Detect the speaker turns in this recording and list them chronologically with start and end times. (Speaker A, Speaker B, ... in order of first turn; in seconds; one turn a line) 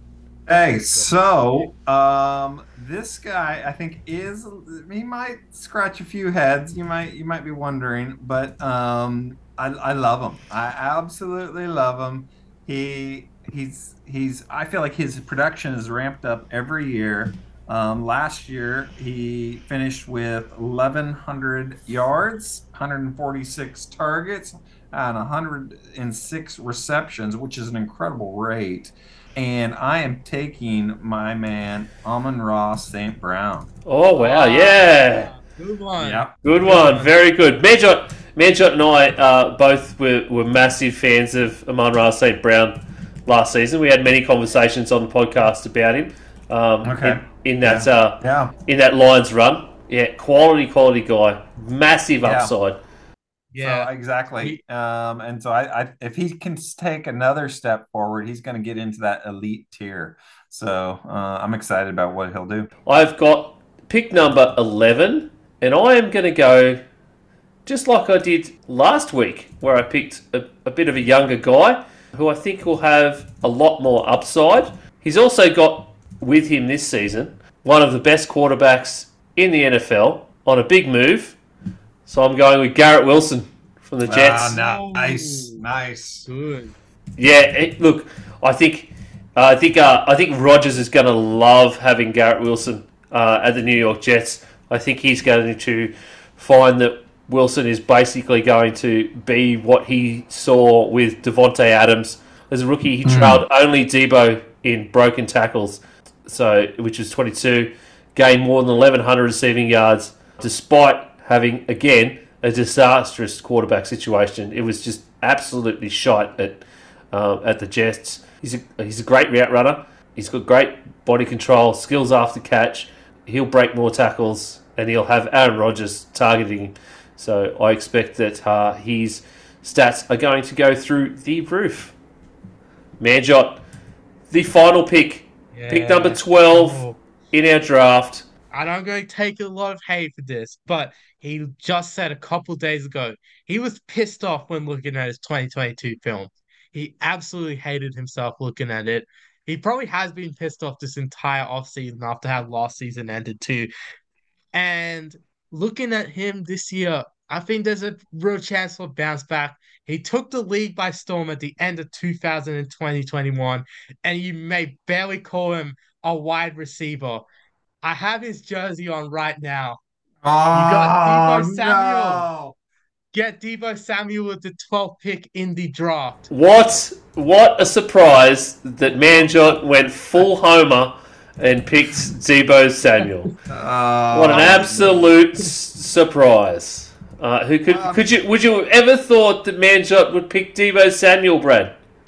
Speaker A: 0.5-33.7
Speaker B: 33.9-35.3
Speaker C: 34.1-37.1
Speaker A: 36.0-36.3
Speaker B: 36.4-52.8
Speaker A: 46.8-48.5
Speaker A: 52.2-52.5
Speaker C: 53.5-54.6
Speaker A: 53.6-62.7
Speaker B: 62.9-66.8
Speaker B: 67.7-81.4
Speaker B: 82.1-84.6
Speaker A: 84.1-86.3
Speaker C: 84.5-85.6
Speaker C: 86.3-86.8
Speaker B: 87.2-131.9
Speaker A: 103.0-103.4
Speaker B: 133.0-133.6
Speaker B: 134.3-138.2
Speaker C: 135.5-137.0
Speaker C: 138.5-153.7
Speaker C: 154.5-167.3
Speaker C: 167.8-169.8
Speaker A: 170.2-172.6
Speaker C: 170.5-172.3
Speaker C: 173.1-176.3
Speaker B: 176.3-183.3
Speaker A: 183.5-185.1
Speaker B: 184.1-191.7
Speaker A: 187.7-188.1